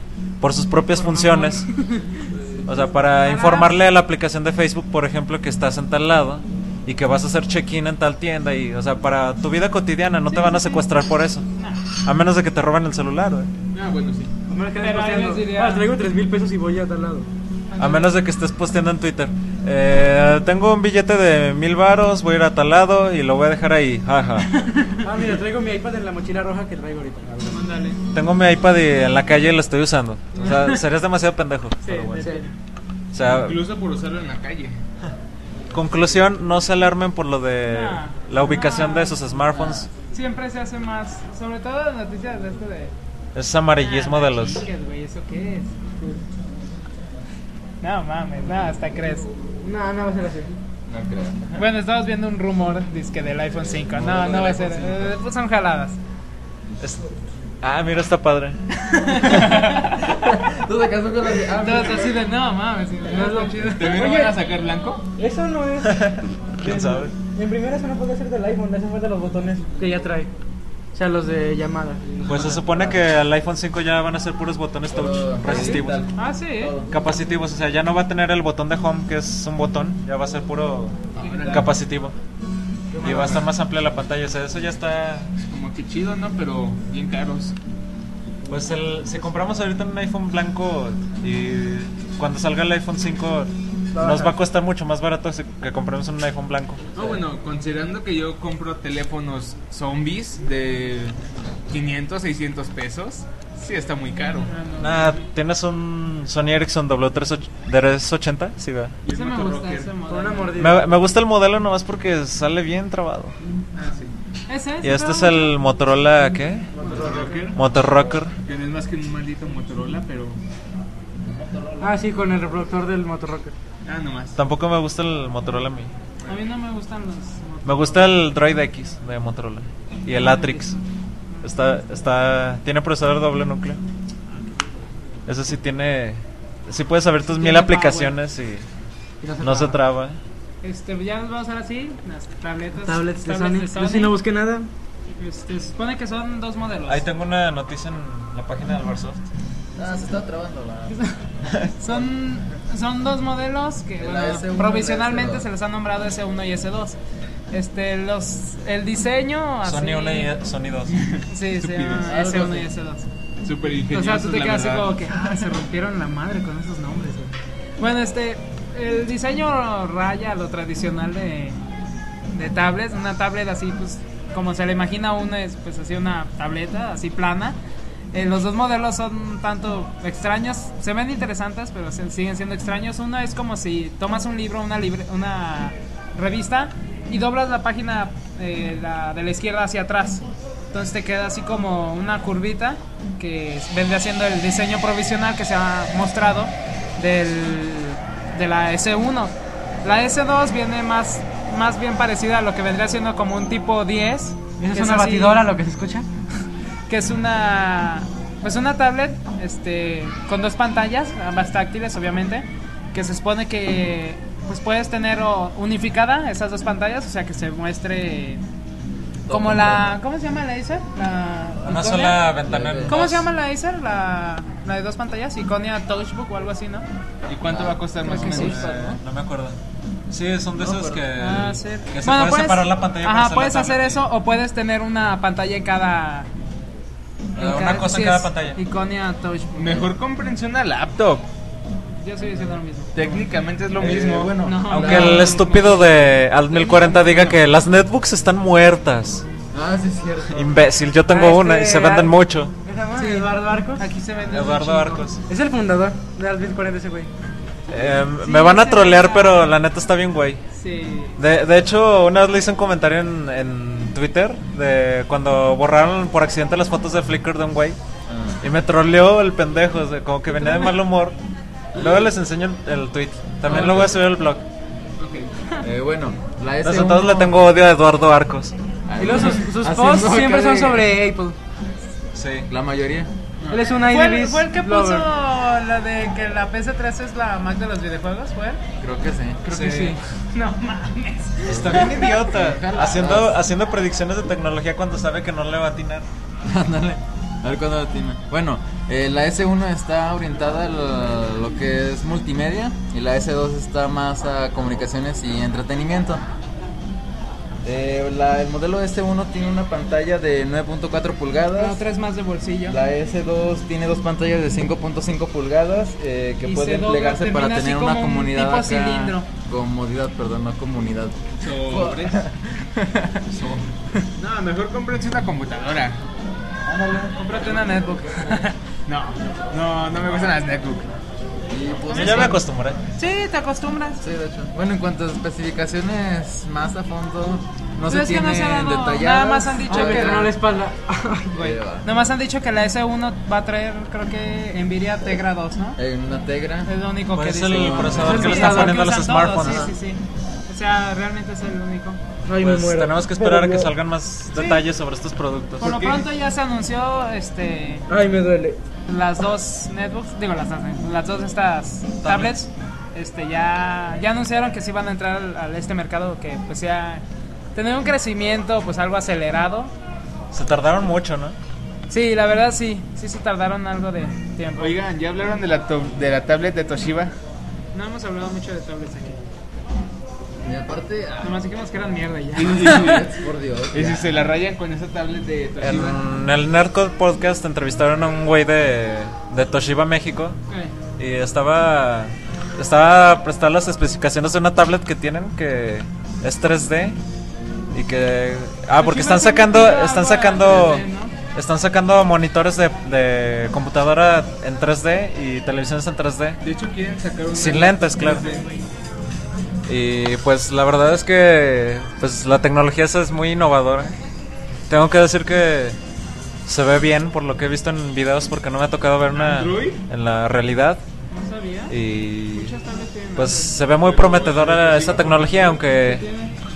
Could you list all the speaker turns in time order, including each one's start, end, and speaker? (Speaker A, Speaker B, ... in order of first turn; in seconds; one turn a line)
Speaker A: 0.4-1.6
Speaker B: 0.9-2.3
Speaker A: 2.7-11.4
Speaker B: 3.2-3.8
Speaker B: 10.3-10.8
Speaker B: 11.6-11.8
Speaker A: 12.0-13.5
Speaker C: 13.7-14.3
Speaker D: 14.5-17.3
Speaker B: 14.8-15.9
Speaker B: 17.7-18.2
Speaker A: 17.8-24.5
Speaker B: 24.5-25.0
Speaker D: 25.0-27.6
Speaker B: 27.5-28.0
Speaker A: 28.1-32.3
Speaker B: 30.3-30.8
Speaker B: 31.8-32.5
Speaker D: 32.2-32.4
Speaker A: 33.1-33.6
Speaker C: 33.2-34.8
Speaker A: 35.7-39.9
Speaker B: 37.7-39.2
Speaker E: 39.5-39.9
Speaker B: 40.1-42.9
Speaker A: 43.3-44.6
Speaker B: 43.8-45.8
Speaker B: 47.8-49.3
Speaker D: 49.6-50.5
Speaker E: 50.9-51.6
Speaker B: 51.5-56.0
Speaker E: 53.8-55.1
Speaker A: 56.8-57.0
Speaker A: 57.6-59.6
Speaker B: 58.8-60.0
Speaker E: 60.0-62.2
Speaker B: 61.5-64.1
Speaker D: 63.0-64.3
Speaker C: 63.6-65.0
Speaker D: 65.2-70.3
Speaker A: 65.8-67.1
Speaker D: 70.9-73.0
Speaker A: 72.2-76.1
Speaker E: 74.9-77.0
Speaker B: 76.1-76.7
Speaker A: 76.9-81.0
Speaker C: 81.2-81.7
Speaker E: 81.2-81.5
Speaker B: 81.2-81.5
Speaker A: 81.5-82.1
Speaker D: 82.9-83.5
Speaker A: 83.0-85.3
Speaker C: 85.5-87.5
Speaker A: 88.5-96.9
Speaker D: 93.9-94.3
Speaker C: 96.9-101.2
Speaker C: 101.7-104.5
Speaker B: 104.5-105.2
Speaker A: 104.8-109.0
Speaker C: 109.0-109.9
Speaker B: 109.1-110.5
Speaker D: 110.1-110.9
Speaker A: 110.6-113.3
Speaker C: 113.8-114.1
Speaker B: 114.5-115.6
Speaker A: 114.8-116.8
Speaker B: 116.8-117.4
Speaker C: 116.8-117.6
Speaker A: 117.5-118.3
Speaker C: 118.4-120.4
Speaker E: 121.2-122.0
Speaker D: 121.8-123.5
Speaker C: 123.8-124.4
Speaker A: 124.3-125.9
Speaker B: 126.3-128.1
Speaker A: 127.6-130.8
Speaker B: 130.1-130.8
Speaker B: 131.3-131.8
Speaker A: 131.4-133.8
Speaker A: 135.3-138.6
Speaker B: 137.3-138.2
Speaker D: 139.2-139.8
Speaker A: 139.4-140.2
Speaker B: 140.6-144.2
Speaker D: 142.8-144.7
Speaker B: 145.2-147.0
Speaker A: 146.9-149.2
Speaker E: 149.7-151.0
Speaker B: 151.8-157.0
Speaker E: 151.8-152.1
Speaker E: 154.0-155.5
Speaker B: 157.5-160.3
Speaker A: 159.6-161.1
Speaker C: 160.9-162.1
Speaker B: 161.3-163.1
Speaker E: 162.0-162.7
Speaker C: 163.4-164.9
Speaker B: 163.9-171.6
Speaker A: 165.1-165.4
Speaker B: 172.3-177.6
Speaker B: 178.1-205.4
Speaker D: 204.6-206.1
Speaker B: 206.9-218.4
Speaker E: 219.3-219.9
Speaker B: 219.3-222.2
Speaker A: 221.6-223.3
Speaker E: 222.4-223.0
Speaker B: 222.9-226.8
Speaker C: 227.3-228.7
Speaker E: 227.4-229.0
Speaker B: 228.0-228.7
Speaker A: 228.3-229.6
Speaker A: 230.1-234.0
Speaker E: 230.6-231.0
Speaker B: 231.2-236.3
Speaker A: 237.3-238.6
Speaker B: 237.3-239.9
Speaker C: 239.6-241.2
Speaker B: 242.0-243.2
Speaker C: 242.9-244.4
Speaker E: 243.7-245.4
Speaker B: 244.3-246.1
Speaker A: 244.7-249.2
Speaker E: 249.5-250.5
Speaker A: 250.3-252.5
Speaker D: 251.1-253.8
Speaker B: 252.9-255.1
Speaker A: 254.3-255.2
Speaker D: 255.3-257.1
Speaker A: 257.7-260.4
Speaker B: 258.2-259.5
Speaker B: 260.5-261.2
Speaker A: 261.2-267.8
Speaker E: 268.1-268.4
Speaker A: 268.4-271.2
Speaker B: 270.4-270.8
Speaker A: 271.7-274.4
Speaker C: 273.5-273.9
Speaker C: 275.0-275.3
Speaker E: 275.6-277.4
Speaker A: 276.6-278.5
Speaker E: 278.9-280.9
Speaker D: 279.0-281.4
Speaker A: 282.1-282.5
Speaker E: 282.5-283.1
Speaker C: 283.4-283.6
Speaker D: 283.5-285.1
Speaker B: 283.8-288.6
Speaker E: 288.8-289.4
Speaker B: 289.4-292.2
Speaker A: 289.5-290.0
Speaker A: 291.4-296.0
Speaker E: 291.4-293.4
Speaker E: 296.4-306.2
Speaker E: 307.6-311.8
Speaker B: 311.6-312.8
Speaker E: 312.6-323.7
Speaker B: 316.4-319.2
Speaker C: 321.4-322.2
Speaker C: 324.2-326.0
Speaker E: 326.6-327.5
Speaker B: 327.2-328.6
Speaker C: 328.9-330.9
Speaker E: 331.5-332.4
Speaker A: 331.9-332.8
Speaker B: 331.9-332.4
Speaker B: 333.0-334.0
Speaker E: 334.0-340.3
Speaker B: 337.9-340.3
Speaker D: 339.7-341.3
Speaker B: 341.3-345.8
Speaker E: 341.3-341.9
Speaker E: 345.8-346.7
Speaker B: 346.7-352.0
Speaker A: 347.1-349.7
Speaker E: 347.5-348.2
Speaker D: 347.9-348.8
Speaker E: 349.4-349.7
Speaker D: 352.2-353.7
Speaker A: 352.4-355.8
Speaker B: 354.3-354.6
Speaker B: 355.6-357.9
Speaker D: 357.9-358.6
Speaker B: 358.9-367.0
Speaker A: 362.0-362.3
Speaker B: 367.5-369.7
Speaker A: 370.3-371.4
Speaker B: 371.9-374.8
Speaker C: 374.6-377.1
Speaker B: 377.7-379.2
Speaker E: 380.4-381.4
Speaker B: 381.2-383.1
Speaker C: 382.4-383.1
Speaker E: 382.4-384.2
Speaker C: 383.7-386.0
Speaker A: 385.6-390.4
Speaker A: 391.0-397.0
Speaker A: 397.7-406.4
Speaker B: 398.8-401.1
Speaker C: 400.4-400.8
Speaker C: 406.4-408.4
Speaker A: 407.3-408.2
Speaker B: 408.0-408.7
Speaker A: 409.7-413.9
Speaker A: 414.7-415.8
Speaker A: 416.4-420.8
Speaker C: 419.1-419.8
Speaker B: 421.1-421.7
Speaker A: 421.7-422.5
Speaker B: 422.3-423.6
Speaker A: 423.1-426.0
Speaker C: 423.8-425.6
Speaker B: 425.6-426.3